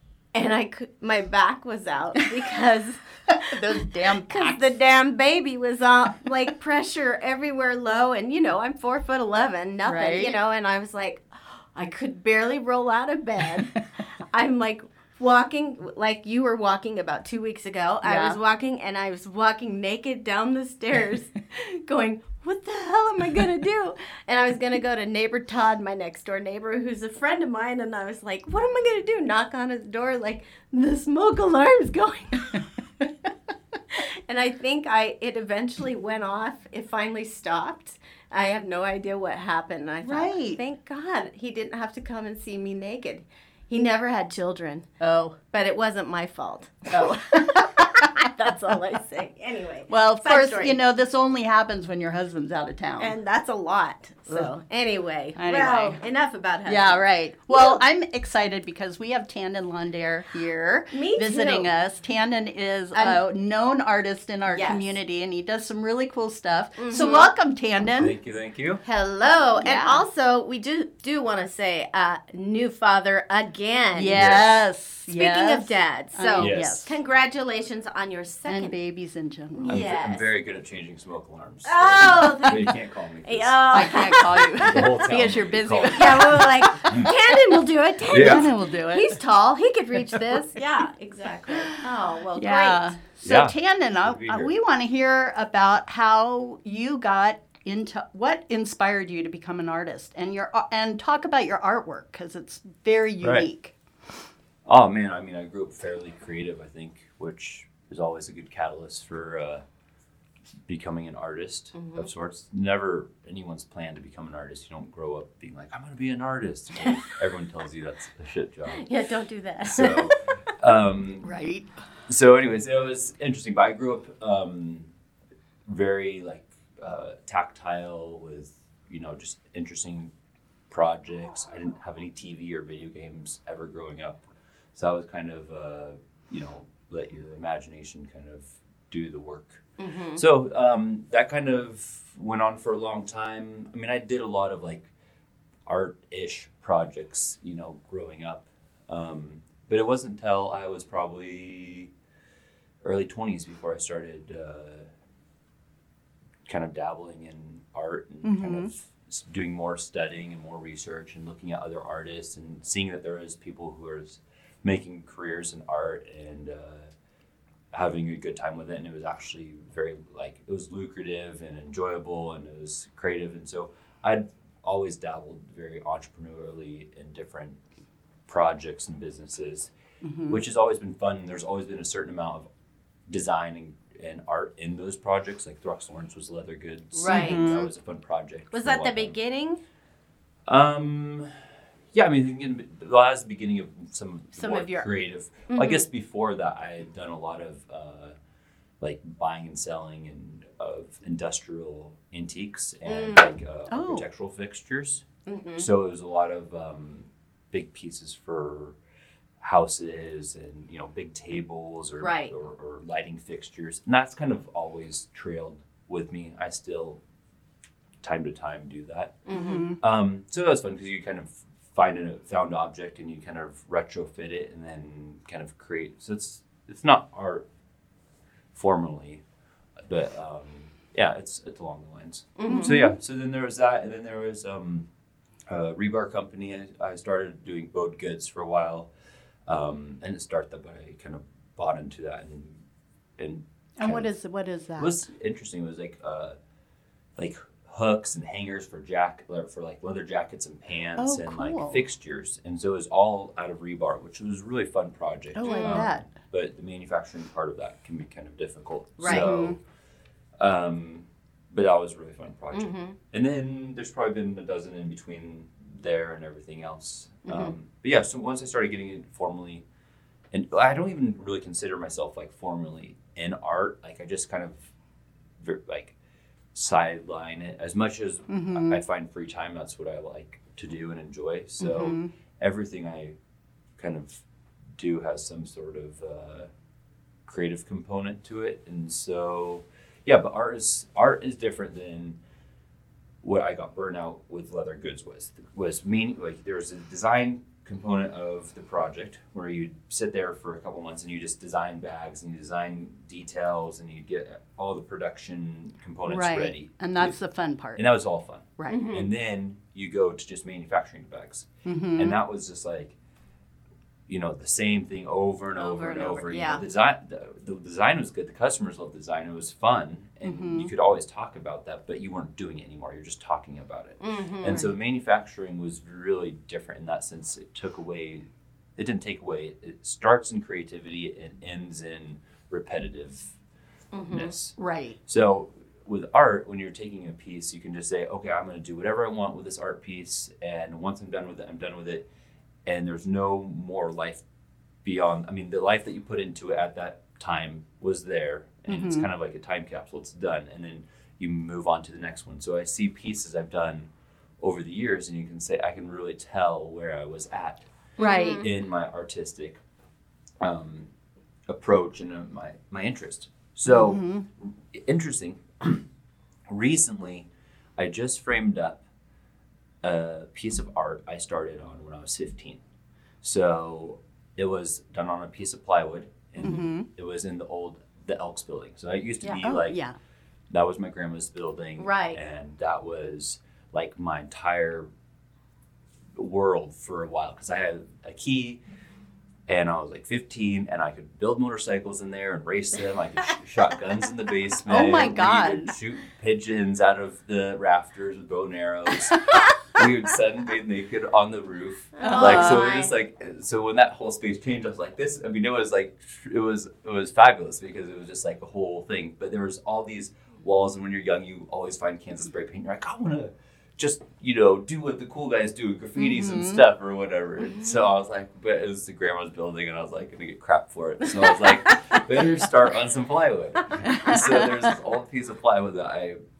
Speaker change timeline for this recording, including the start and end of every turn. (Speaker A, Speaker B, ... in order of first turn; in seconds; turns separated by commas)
Speaker A: 0.3-3.6, Speaker B: 3.3-4.7, Speaker A: 4.2-32.6, Speaker B: 9.8-10.3, Speaker B: 18.0-18.4, Speaker A: 33.9-44.9, Speaker B: 40.0-40.6, Speaker B: 45.0-45.4, Speaker A: 45.5-50.8, Speaker B: 46.9-48.1, Speaker B: 49.9-53.1, Speaker A: 53.0-57.8, Speaker B: 55.4-56.0, Speaker B: 56.6-68.1, Speaker A: 60.9-61.7, Speaker A: 62.9-63.2, Speaker A: 64.5-64.9, Speaker A: 66.8-67.3, Speaker C: 68.0-68.8, Speaker A: 68.8-74.4, Speaker B: 69.6-70.0, Speaker B: 73.9-76.9, Speaker C: 74.1-74.6, Speaker A: 75.1-78.7, Speaker C: 76.4-76.8, Speaker B: 78.5-79.8, Speaker A: 79.5-80.3, Speaker C: 79.7-87.1, Speaker A: 81.6-84.9, Speaker B: 83.7-87.1, Speaker A: 85.9-92.9, Speaker C: 88.1-88.5, Speaker B: 88.1-89.2, Speaker B: 91.6-103.7, Speaker C: 93.2-94.5, Speaker C: 103.2-103.5, Speaker C: 104.7-109.6, Speaker C: 110.7-118.9, Speaker A: 111.7-112.0, Speaker A: 118.7-120.2, Speaker C: 119.6-121.4, Speaker B: 121.2-121.7, Speaker C: 122.1-124.9, Speaker C: 125.7-130.1, Speaker C: 130.7-139.6, Speaker A: 139.8-140.2, Speaker C: 140.1-144.9, Speaker C: 145.7-151.9, Speaker C: 152.8-154.9, Speaker C: 156.4-166.9, Speaker B: 158.2-158.7, Speaker C: 167.7-177.6, Speaker C: 178.3-179.7, Speaker B: 180.0-180.4, Speaker C: 180.3-182.5, Speaker C: 183.1-189.2, Speaker A: 186.9-187.5, Speaker B: 187.0-187.7, Speaker A: 188.5-189.6, Speaker C: 190.5-191.3, Speaker C: 191.9-198.1, Speaker A: 194.4-194.9, Speaker A: 195.5-195.8, Speaker C: 198.8-205.0, Speaker A: 202.8-203.3, Speaker B: 203.7-204.1, Speaker A: 205.2-205.7, Speaker C: 205.6-208.8, Speaker C: 209.4-217.0, Speaker A: 212.0-212.3, Speaker C: 218.0-227.4, Speaker A: 219.3-219.7, Speaker B: 219.3-219.8, Speaker C: 228.5-229.2, Speaker C: 229.8-234.9, Speaker A: 232.4-232.8, Speaker B: 232.4-232.9, Speaker C: 235.5-238.9, Speaker C: 239.5-242.6, Speaker C: 243.2-244.1, Speaker B: 243.8-245.0, Speaker C: 244.8-246.4, Speaker C: 247.2-259.6, Speaker B: 251.0-251.8, Speaker B: 255.4-256.1, Speaker A: 255.4-255.9, Speaker A: 259.0-259.5, Speaker B: 259.0-259.6, Speaker C: 260.4-269.6, Speaker A: 262.5-262.9, Speaker A: 267.2-267.5, Speaker C: 270.3-274.7, Speaker C: 275.4-275.9, Speaker C: 276.5-283.1, Speaker B: 278.3-278.8, Speaker B: 281.6-282.1, Speaker C: 283.8-284.2, Speaker C: 284.8-286.5, Speaker C: 287.2-292.2, Speaker C: 293.2-307.1, Speaker B: 306.1-307.8, Speaker C: 307.8-312.9, Speaker B: 308.6-308.9, Speaker A: 308.7-309.1, Speaker B: 311.6-312.2, Speaker C: 314.1-333.3, Speaker B: 315.6-316.6, Speaker B: 320.2-320.7, Speaker A: 324.0-324.7, Speaker A: 333.9-334.3, Speaker C: 334.1-342.1, Speaker B: 334.6-335.0, Speaker C: 342.6-344.2, Speaker C: 344.8-357.7, Speaker B: 348.7-349.1, Speaker B: 358.0-358.5, Speaker A: 358.0-358.5, Speaker C: 358.4-359.6, Speaker C: 360.4-360.9, Speaker C: 361.5-365.8, Speaker B: 363.7-364.2, Speaker C: 366.5-368.8, Speaker C: 369.8-372.6, Speaker C: 373.2-379.8, Speaker B: 376.4-376.9, Speaker B: 379.2-379.9, Speaker C: 380.5-384.9, Speaker A: 381.8-382.2, Speaker C: 386.1-388.6, Speaker C: 389.5-426.2, Speaker B: 394.6-395.7, Speaker A: 402.0-402.9, Speaker B: 402.0-402.7, Speaker B: 416.0-416.6, Speaker B: 423.9-424.2